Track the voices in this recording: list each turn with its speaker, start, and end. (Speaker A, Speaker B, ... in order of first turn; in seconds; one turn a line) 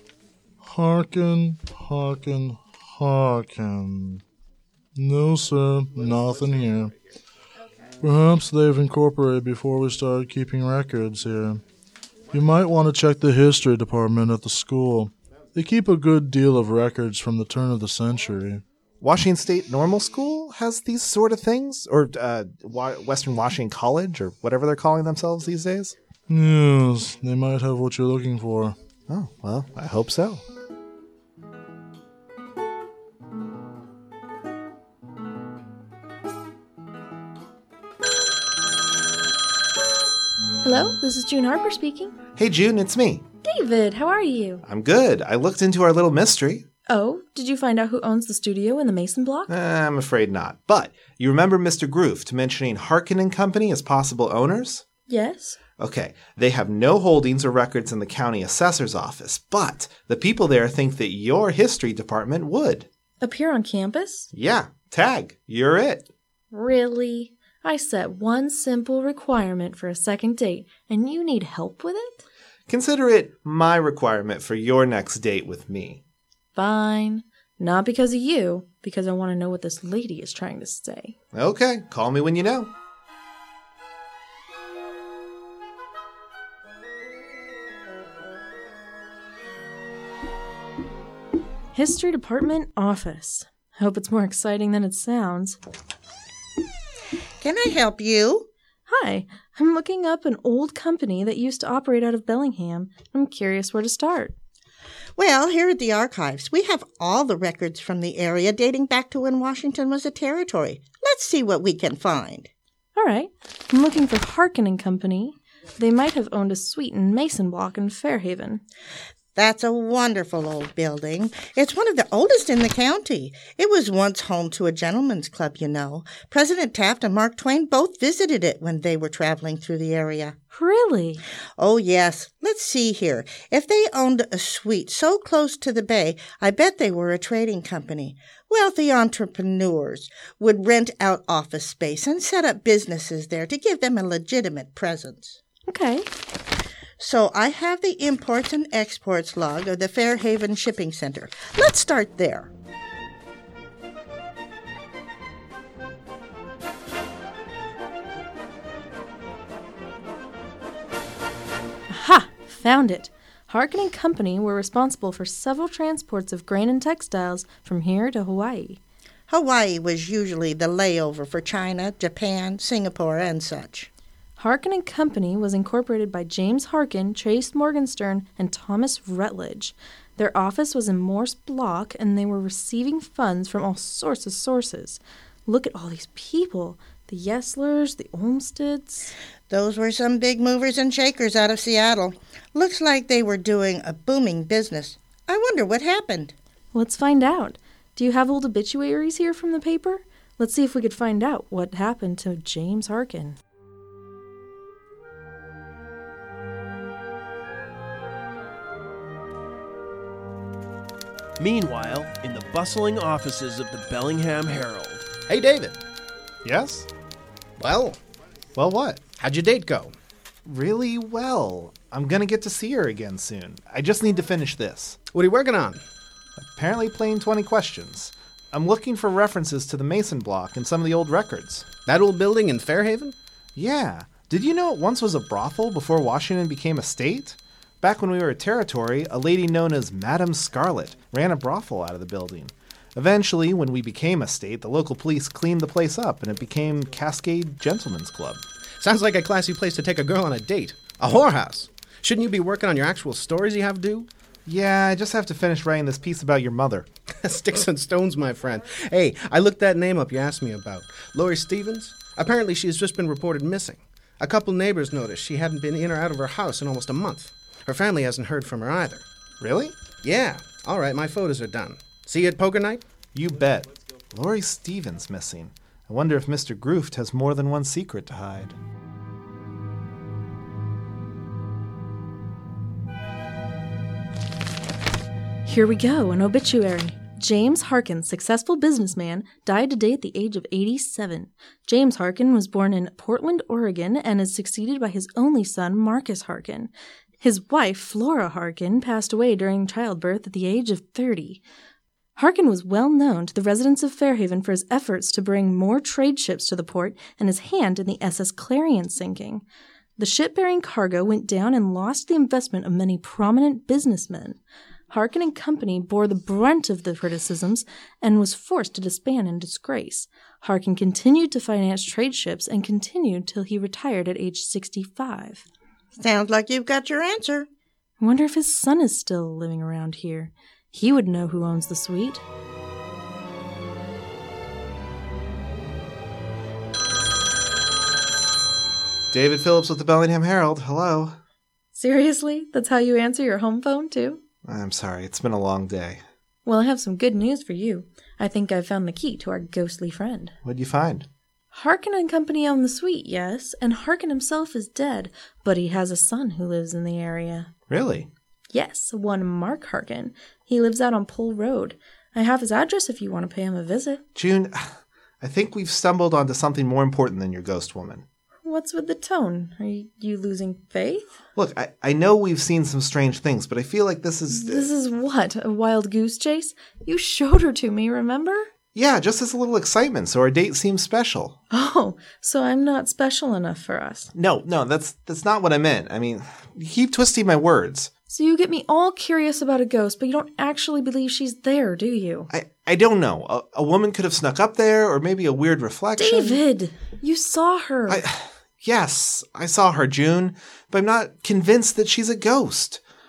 Speaker A: 0.6-4.2
Speaker A: 5.0-6.9
Speaker A: 8.0-11.6
Speaker A: 12.3-18.6
Speaker B: 19.0-25.9
Speaker A: 26.3-28.8
Speaker B: 29.1-30.4
Speaker C: 40.6-42.1
Speaker B: 42.4-43.2
Speaker C: 43.4-44.6
Speaker B: 44.6-46.6
Speaker C: 46.9-49.5
Speaker B: 49.5-54.8
Speaker C: 55.1-55.6
Speaker B: 55.8-62.9
Speaker C: 63.2-64.3
Speaker B: 64.3-66.1
Speaker C: 66.5-72.2
Speaker B: 72.7-76.0
Speaker C: 76.5-81.1
Speaker B: 81.3-82.7
Speaker C: 91.7-95.6
Speaker D: 97.4-98.5
Speaker C: 98.9-104.3
Speaker D: 105.2-112.5
Speaker C: 113.0-118.6
Speaker D: 119.3-130.3
Speaker C: 130.5-131.2
Speaker D: 131.6-145.4
Speaker C: 145.7-146.1
Speaker D: 147.0-152.5
Speaker C: 161.9-168.8
Speaker D: 169.3-173.9
Speaker C: 174.4-189.1
Speaker D: 189.5-196.3
Speaker C: 196.7-203.4
Speaker E: 211.4-215.1
Speaker F: 215.3-215.8
Speaker B: 216.4-216.9
Speaker F: 217.6-218.0
Speaker B: 218.5-219.0
Speaker F: 219.2-219.9
Speaker B: 220.4-225.0
Speaker F: 225.1-225.8
Speaker B: 226.4-231.7
Speaker F: 231.8-233.2
Speaker B: 233.5-248.4
Speaker F: 248.8-254.1
Speaker B: 254.4-256.9
Speaker F: 257.2-269.1
Speaker B: 269.4-269.8
Speaker F: 270.0-272.8
Speaker B: 273.1-278.6
Speaker C: 285.4-301.4
Speaker C: 302.1-309.4
Speaker C: 310.0-314.4
Speaker C: 314.9-325.4
Speaker D: 326.0-327.5
Speaker C: 328.0-332.2
Speaker B: 339.1-341.2
Speaker C: 341.7-344.2
Speaker B: 344.4-346.0
Speaker C: 346.4-350.3
Speaker B: 350.4-351.1
Speaker C: 351.5-357.5
Speaker B: 357.7-358.1
Speaker C: 358.5-364.0
Speaker B: 364.1-368.0
Speaker C: 368.4-371.1
Speaker B: 371.3-374.7
Speaker C: 374.3-378.5
Speaker B: 378.7-381.4
Speaker C: 381.5-384.1
Speaker B: 384.1-387.9
Speaker C: 388.1-392.3
Speaker B: 392.3-396.4
Speaker C: 396.0-398.0
Speaker B: 397.9-402.8